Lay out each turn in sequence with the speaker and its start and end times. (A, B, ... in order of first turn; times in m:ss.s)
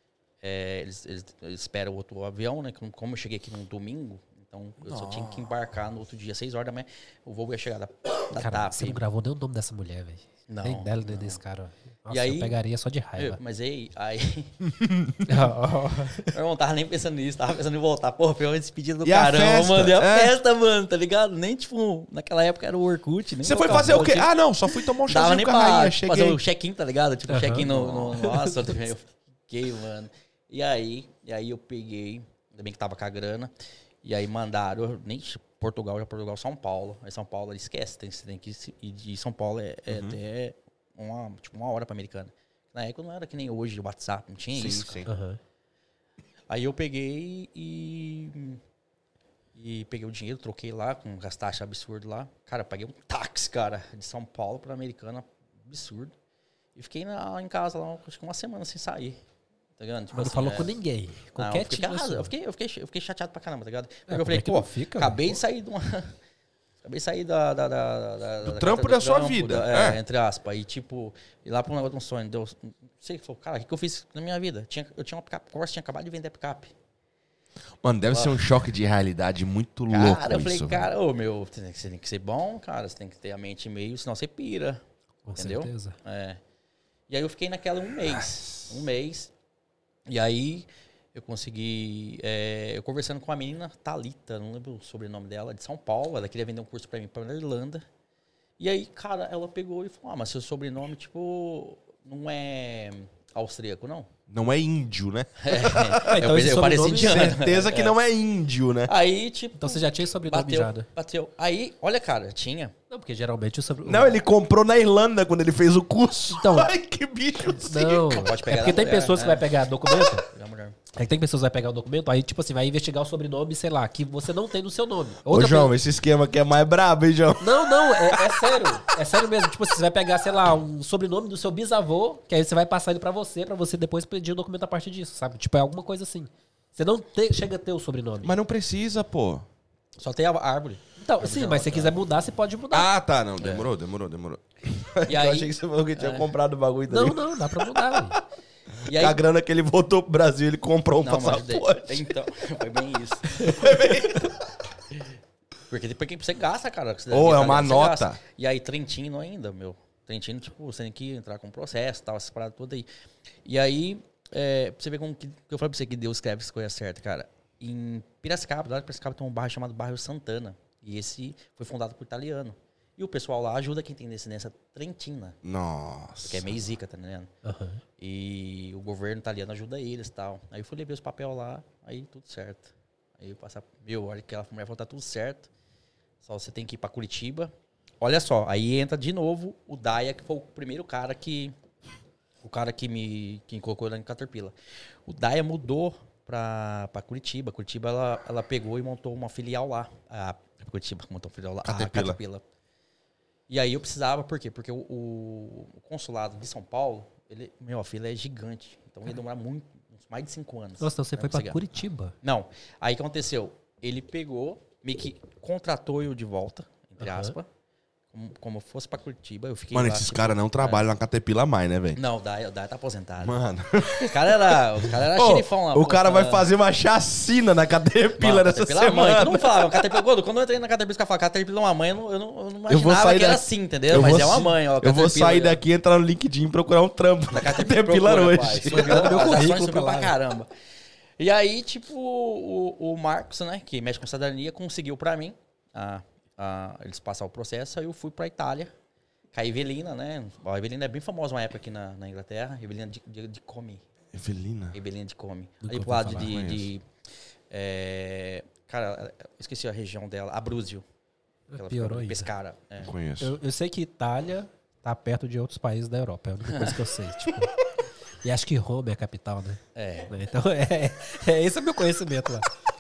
0:00.4-0:09.0 A
0:04.8-0:05.5 B
0:08.3-0:13.4 C
0:10.5-0:11.4 A
0:12.1-0:12.6 A
0:13.2-0:14.5 A
0:14.6-0:15.3 B
0:15.2-0:16.3 C
0:16.2-0:24.3 A
0:19.0-0:20.3 B
0:23.4-0:26.4 B
0:23.6-0:24.1 C
0:25.0-0:33.5 A
0:27.3-0:28.8 C
0:34.0-0:45.0 A
0:39.9-0:40.2 B
0:44.5-0:45.1 B
0:45.0-0:45.4 C
0:46.5-0:48.6 A
0:49.6-0:56.1 A
0:56.8-0:59.2 A
0:59.8-1:00.7 A
1:00.1-1:02.3 C
1:01.4-1:06.1 A
1:04.1-1:05.4 C
1:06.8-1:16.7 A
1:08.4-1:10.0 B
1:17.8-1:20.9 B
1:18.1-1:18.4 A
1:19.9-1:24.8 A
1:25.2-1:26.0 C
1:25.4-1:26.4 A
1:27.1-1:29.3 A
1:28.0-1:28.7 B
1:30.1-1:37.8 A
1:38.6-1:44.1 A
1:44.3-1:46.2 B
1:45.4-1:48.0 A
1:46.0-1:47.4 C
1:47.0-1:48.9 B
1:48.9-1:52.7 A
1:49.6-1:50.9 C
1:52.9-1:54.2 C
1:53.8-1:58.2 B
1:56.4-1:56.7 C
1:57.5-2:00.2 C
1:58.1-2:00.9 A
2:00.9-2:05.7 C
2:05.2-2:08.4 B
2:07.4-2:18.4 C
2:18.2-2:19.4 B
2:20.0-2:22.0 A
2:21.0-2:22.9 C
2:22.7-2:28.2 B
2:23.4-2:23.7 A
2:25.1-2:26.3 A
2:26.9-2:28.2 C
2:28.8-2:29.2 A
2:28.9-2:32.1 B
2:31.0-2:33.6 A
2:33.4-2:34.5 B
2:35.7-2:42.9 A
2:37.1-2:38.2 B
2:43.4-2:55.4 A
2:55.4-2:56.6 B
2:56.2-2:57.3 A
2:57.4-2:57.8 C
2:58.0-3:05.5 A
3:06.2-3:11.5 A
3:12.4-3:14.5 A
3:15.0-3:22.4 A
3:21.6-3:22.2 B
3:23.5-3:31.6 A
3:30.8-3:32.1 C
3:32.2-3:37.5 A
3:37.0-3:37.3 C
3:38.1-3:40.8 A
3:39.7-3:42.0 B
3:41.9-3:43.4 A
3:43.2-3:50.0 B
3:44.0-3:46.5 A
3:48.2-3:55.6 A
3:52.7-3:59.3 B
3:57.3-4:00.5 A
3:58.6-4:00.1 C
4:01.2-4:08.7 A
4:09.3-4:13.8 A
4:14.1-4:14.8 B
4:14.7-4:16.8 A
4:15.6-4:16.4 C
4:16.2-4:16.7 B
4:17.5-4:20.8 A
4:21.5-4:22.3 C
4:21.5-4:22.9 A
4:22.8-4:23.4 B
4:23.2-4:27.6 C
4:26.5-4:26.8 A
4:28.2-4:32.5 C
4:29.7-4:30.1 A